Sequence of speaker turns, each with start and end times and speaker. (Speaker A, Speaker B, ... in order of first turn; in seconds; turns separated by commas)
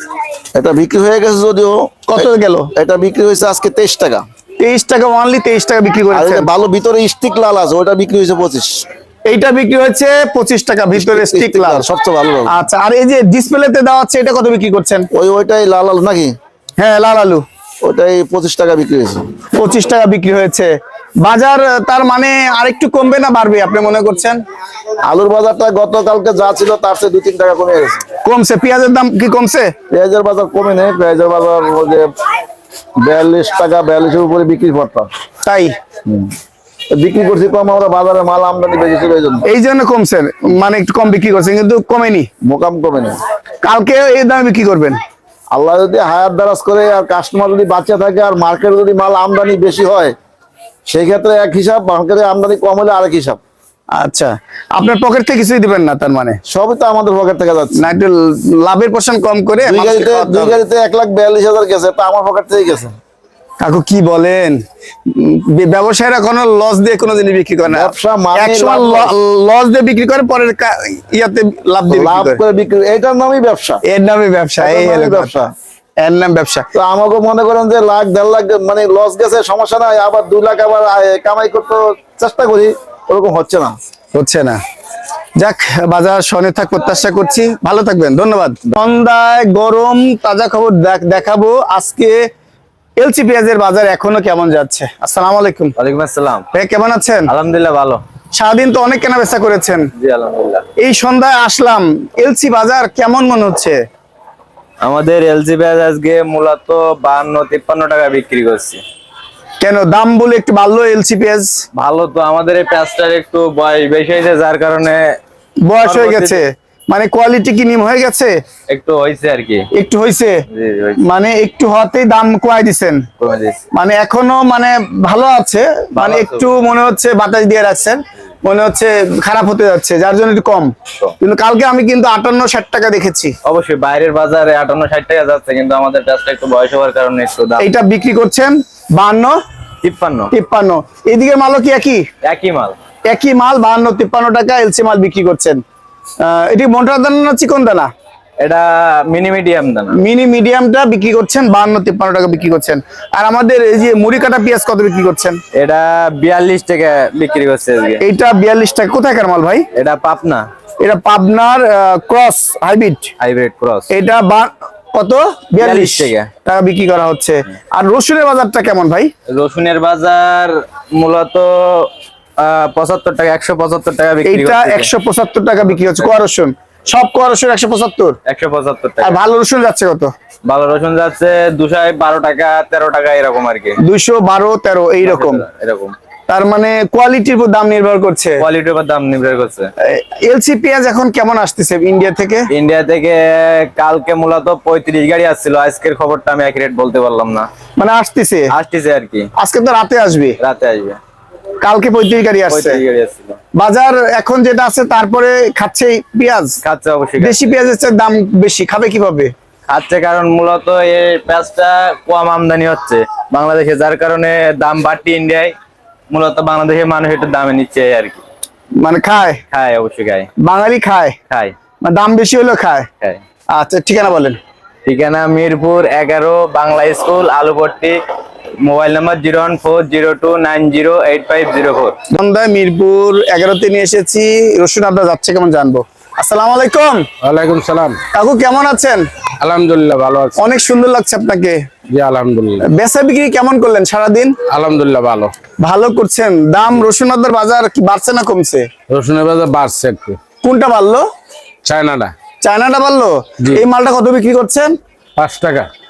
Speaker A: 0.5-4.2, Speaker B: 2.1-2.7, Speaker B: 4.6-6.5, Speaker A: 6.1-8.8, Speaker B: 9.3-11.9, Speaker A: 11.0-12.5, Speaker B: 12.5-15.1, Speaker A: 15.1-16.4, Speaker B: 16.8-17.4, Speaker A: 17.8-19.2, Speaker B: 19.6-20.7, Speaker B: 21.2-24.4, Speaker A: 25.0-28.0, Speaker B: 28.2-29.7, Speaker A: 29.9-32.1, Speaker A: 33.0-35.1, Speaker B: 35.5-35.7, Speaker A: 36.9-39.5, Speaker B: 39.5-42.3, Speaker A: 42.4-43.2, Speaker B: 43.6-45.0, Speaker A: 45.5-50.1, Speaker A: 50.9-53.4, Speaker B: 53.9-56.4, Speaker A: 56.5-57.9, Speaker B: 57.8-60.6, Speaker A: 59.6-63.0, Speaker B: 63.6-72.4, Speaker A: 67.7-69.1, Speaker A: 71.9-73.8, Speaker B: 73.9-75.3, Speaker A: 74.6-75.5, Speaker B: 76.0-76.7, Speaker A: 76.7-83.8, Speaker B: 84.2-84.6, Speaker B: 85.4-92.2, Speaker B: 93.0-95.8, Speaker C: 95.8-96.5, Speaker B: 96.5-97.3, Speaker C: 97.3-98.0, Speaker B: 98.3-99.9, Speaker C: 100.0-100.6, Speaker B: 100.8-103.8, Speaker C: 104.8-108.8, Speaker B: 109.6-111.6, Speaker C: 111.8-115.0, Speaker B: 115.7-118.3, Speaker C: 115.8-116.4, Speaker C: 118.7-119.7, Speaker B: 119.8-120.4, Speaker C: 120.5-121.0, Speaker B: 121.0-123.1, Speaker C: 123.2-123.6, Speaker B: 123.7-133.3, Speaker C: 126.0-126.5, Speaker C: 133.4-137.7, Speaker B: 137.6-139.4, Speaker C: 139.8-140.3, Speaker B: 140.3-142.0, Speaker C: 142.2-142.8, Speaker B: 143.1-145.6, Speaker B: 146.2-147.9, Speaker C: 148.4-150.0, Speaker B: 149.9-155.4, Speaker C: 155.6-158.0, Speaker B: 158.0-159.7, Speaker C: 159.8-160.4, Speaker B: 160.8-163.1, Speaker C: 163.2-163.9, Speaker B: 163.9-169.1, Speaker C: 165.6-166.3, Speaker C: 169.3-174.9, Speaker B: 174.2-178.2, Speaker C: 178.3-179.2, Speaker B: 179.0-180.1, Speaker C: 180.4-183.8, Speaker B: 183.8-185.4, Speaker C: 185.0-185.9, Speaker B: 186.3-188.4, Speaker C: 188.4-189.7, Speaker B: 189.8-192.5, Speaker C: 192.5-197.5, Speaker B: 197.8-198.5, Speaker C: 198.5-199.3, Speaker B: 199.4-200.4, Speaker C: 200.4-201.0, Speaker B: 201.6-202.8, Speaker C: 202.5-203.4, Speaker B: 203.6-206.6, Speaker C: 206.6-207.5, Speaker B: 207.2-209.3, Speaker C: 209.7-215.5, Speaker C: 216.1-218.2, Speaker B: 218.8-219.4, Speaker C: 219.5-220.3, Speaker B: 220.4-221.2, Speaker B: 221.8-222.9, Speaker B: 223.5-224.4, Speaker C: 224.8-228.0, Speaker C: 228.6-232.0, Speaker B: 232.1-237.1, Speaker D: 237.2-238.0, Speaker B: 238.1-239.0, Speaker D: 239.4-240.4, Speaker B: 240.4-241.6, Speaker D: 241.9-242.7, Speaker B: 242.7-244.4, Speaker D: 244.5-245.3, Speaker B: 245.6-248.7, Speaker D: 248.9-250.2, Speaker B: 250.4-251.0, Speaker D: 251.6-252.1, Speaker B: 252.4-254.7, Speaker D: 255.2-255.7